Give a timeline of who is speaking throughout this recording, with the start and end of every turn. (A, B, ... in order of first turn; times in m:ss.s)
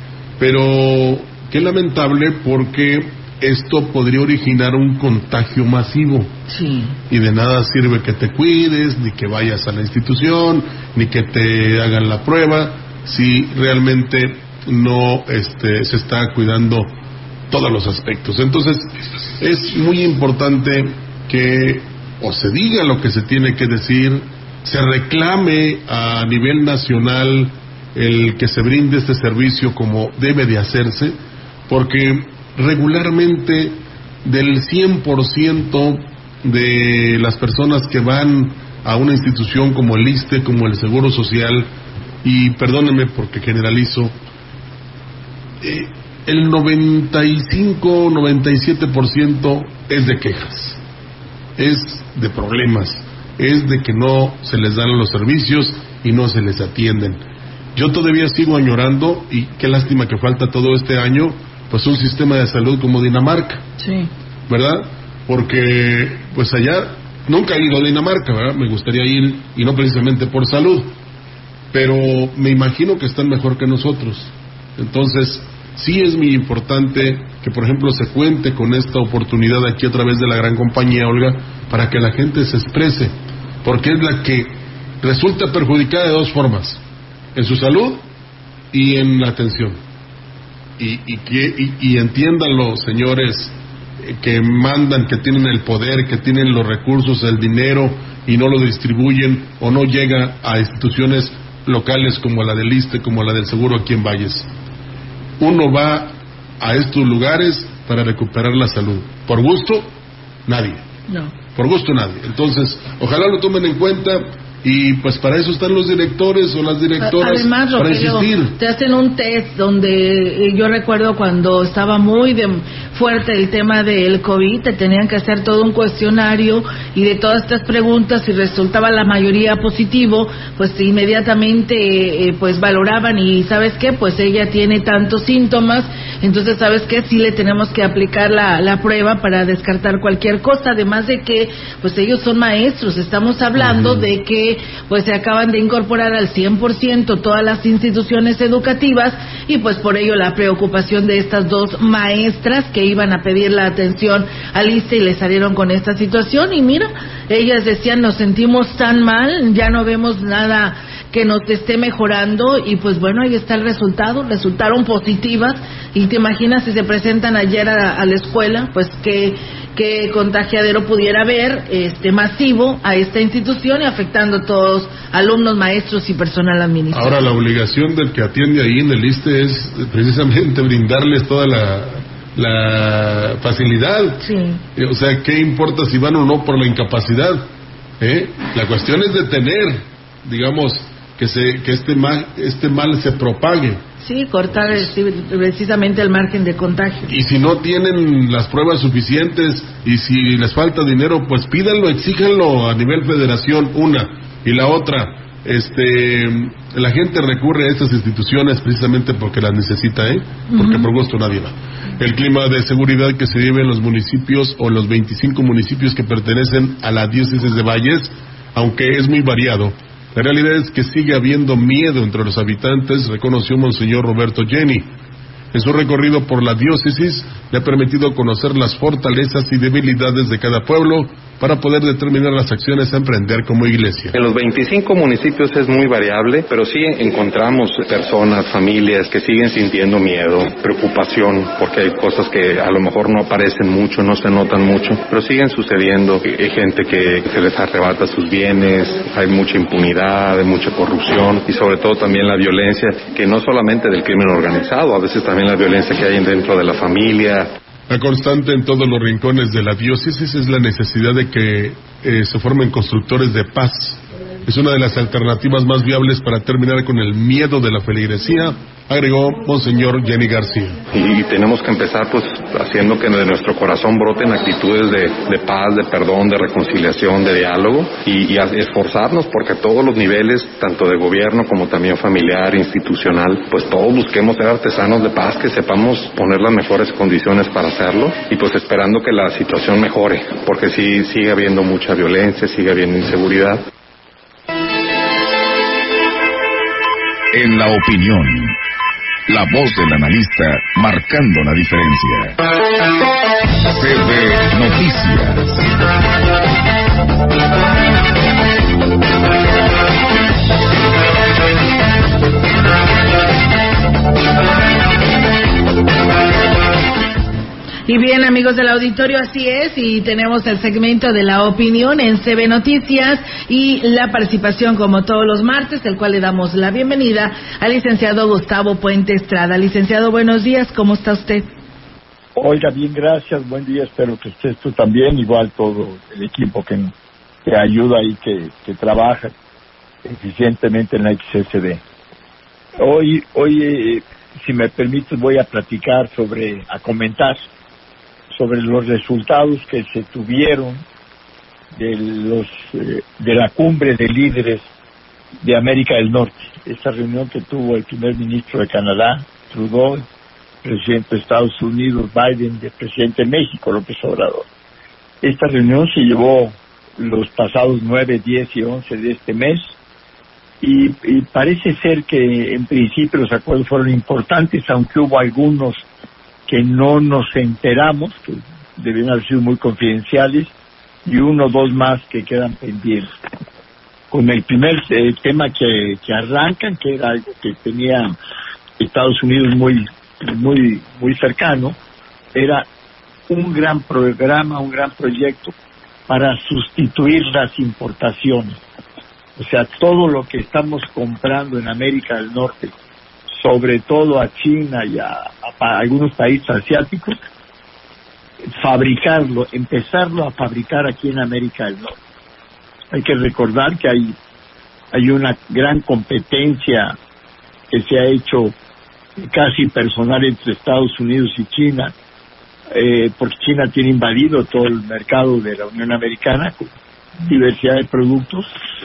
0:00.4-0:06.3 A
0:06.5-0:06.9 B
0:07.1-0:16.9 A
0:17.5-0:31.2 A
0:31.7-0:41.7 A
0:42.2-0:44.1 A
0:45.6-0:50.8 A
0:51.6-0:57.2 A
0:57.7-1:03.6 A
1:03.8-1:04.1 B
1:04.5-1:10.9 A
1:11.7-1:26.8 A
1:27.3-1:28.0 A
1:28.7-1:29.8 A
1:30.8-1:44.5 A
1:45.4-1:49.9 A
1:50.5-1:50.8 A
1:51.1-1:51.3 B
1:51.5-1:58.6 A
1:57.0-2:57.3 B
2:23.6-2:24.0 A
2:56.9-3:04.2 A
3:04.2-3:04.6 B
3:04.7-3:07.4 A
3:08.0-3:13.8 A
3:14.0-3:17.1 B
3:14.5-3:14.9 A
3:17.1-3:44.9 A
3:30.5-3:30.8 B
3:45.5-3:54.1 A
3:54.1-4:17.5 C
4:17.9-4:30.8 A
4:30.9-4:53.6 C
4:57.3-4:58.6 D
4:59.3-5:02.4 D
5:03.7-5:05.6 D
5:17.9-5:31.5 B
5:32.4-5:36.9 E
5:37.4-5:39.3 E
5:40.0-5:41.8 E
5:42.8-5:47.4 E
5:48.3-5:50.8 E
5:51.7-5:54.6 E
5:55.4-6:00.0 E
6:00.6-6:04.4 E
6:05.2-6:09.7 E
6:10.6-6:15.8 E
6:16.5-6:20.5 E
6:21.0-6:23.1 E
6:24.1-6:28.1 E
6:28.8-6:31.8 E
6:32.3-6:32.6 E
6:33.3-6:35.5 E
6:36.1-6:38.6 E
6:39.4-6:42.7 E
6:43.3-6:47.2 E
6:48.6-6:52.0 E
6:52.9-6:54.1 E
6:54.9-6:57.0 E
6:57.7-6:58.5 E
6:59.2-7:01.9 E
7:02.7-7:06.7 E
7:07.2-7:08.5 E